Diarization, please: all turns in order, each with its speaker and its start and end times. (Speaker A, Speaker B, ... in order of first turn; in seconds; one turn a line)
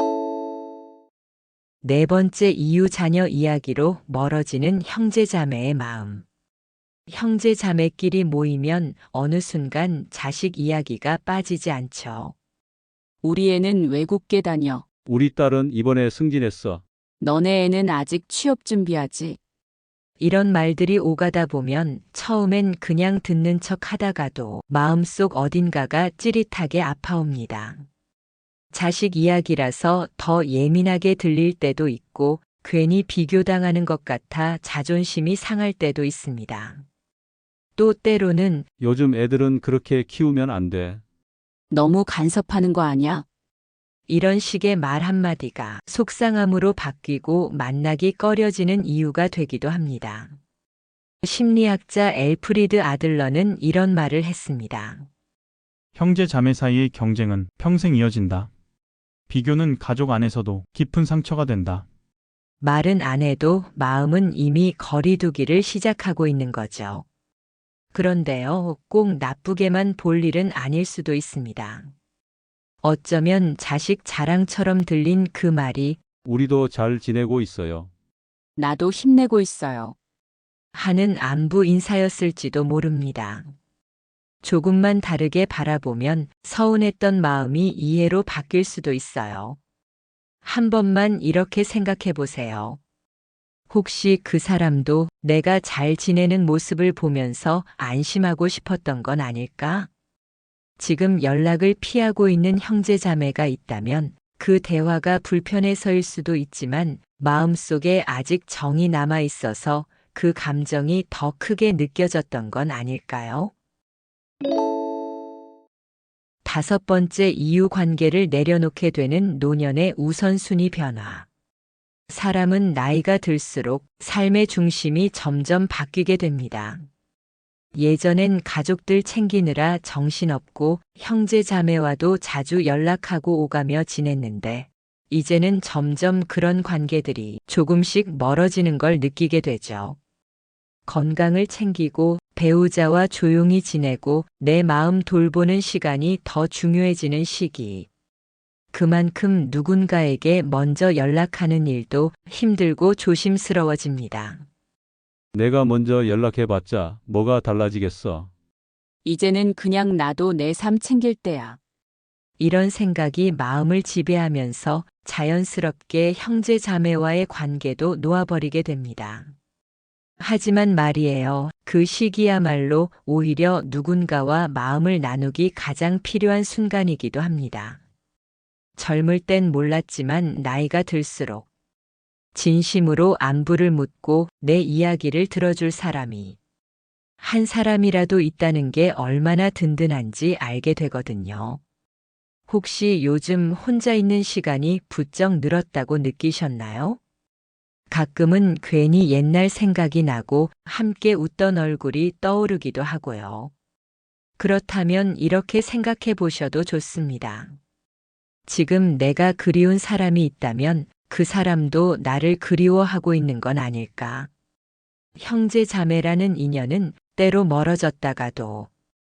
Speaker A: 1.8-6.2
Speaker A: 7.1-12.3
Speaker B: 13.2-14.8
Speaker C: 15.1-16.8
Speaker B: 17.2-19.4
Speaker A: 20.2-27.8
Speaker A: 28.7-36.8
Speaker A: 37.8-38.7
Speaker C: 38.8-41.0
Speaker B: 41.7-43.2
Speaker A: 44.1-50.4
Speaker A: 51.2-55.1
Speaker D: 55.9-58.5
Speaker D: 59.3-61.9
Speaker A: 62.6-67.0
Speaker A: 67.9-71.9
Speaker A: 72.8-76.0
Speaker C: 76.2-77.9
Speaker B: 78.6-79.9
Speaker A: 80.7-83.5
Speaker A: 84.4-89.6
Speaker A: 90.4-92.8
Speaker A: 93.7-99.9
Speaker A: 100.8-113.5
Speaker A: 116.4-121.3
Speaker A: 122.1-126.8
Speaker A: 127.7-140.0
Speaker A: 140.9-147.9
Speaker A: 148.7-154.4
Speaker C: 155.3-158.3
Speaker B: 159.0-161.6
Speaker A: 162.4-169.3
Speaker A: 170.2-177.8
Speaker A: 178.8-181.5
Speaker A: 182.3-186.4
Speaker A: 187.2-191.6
Speaker A: 192.5-197.0
Speaker A: 197.9-203.5
Speaker A: 204.4-207.6
Speaker A: 208.5-214.3
Speaker A: 215.2-218.7